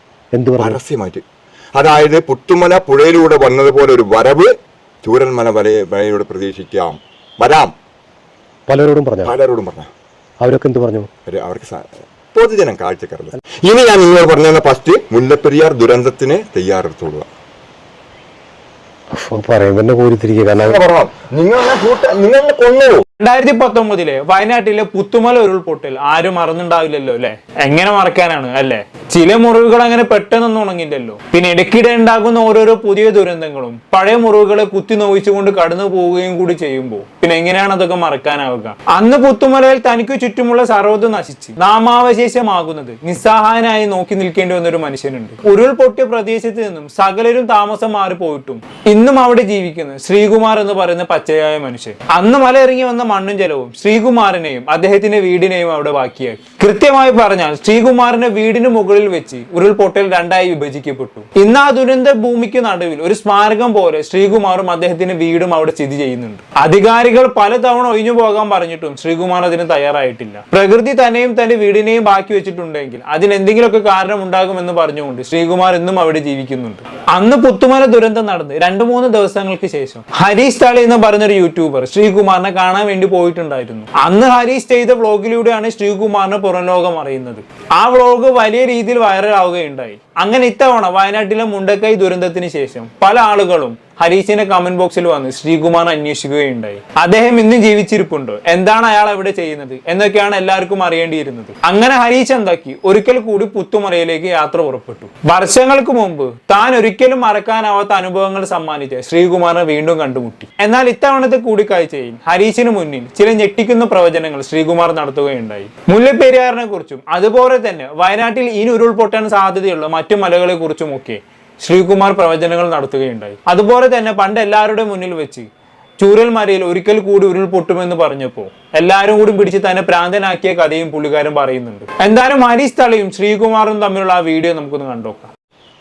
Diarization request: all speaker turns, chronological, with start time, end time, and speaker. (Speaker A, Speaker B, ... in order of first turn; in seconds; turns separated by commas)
Speaker A: 0.3-0.8, Speaker B: 0.6-1.2, Speaker B: 1.8-4.5, Speaker B: 5.0-7.7, Speaker A: 8.7-9.3, Speaker B: 9.2-9.9, Speaker A: 10.4-11.1, Speaker B: 11.3-11.8, Speaker B: 12.3-17.2, Speaker A: 19.1-20.8, Speaker B: 20.6-23.0, Speaker C: 23.2-125.5, Speaker C: 126.0-135.3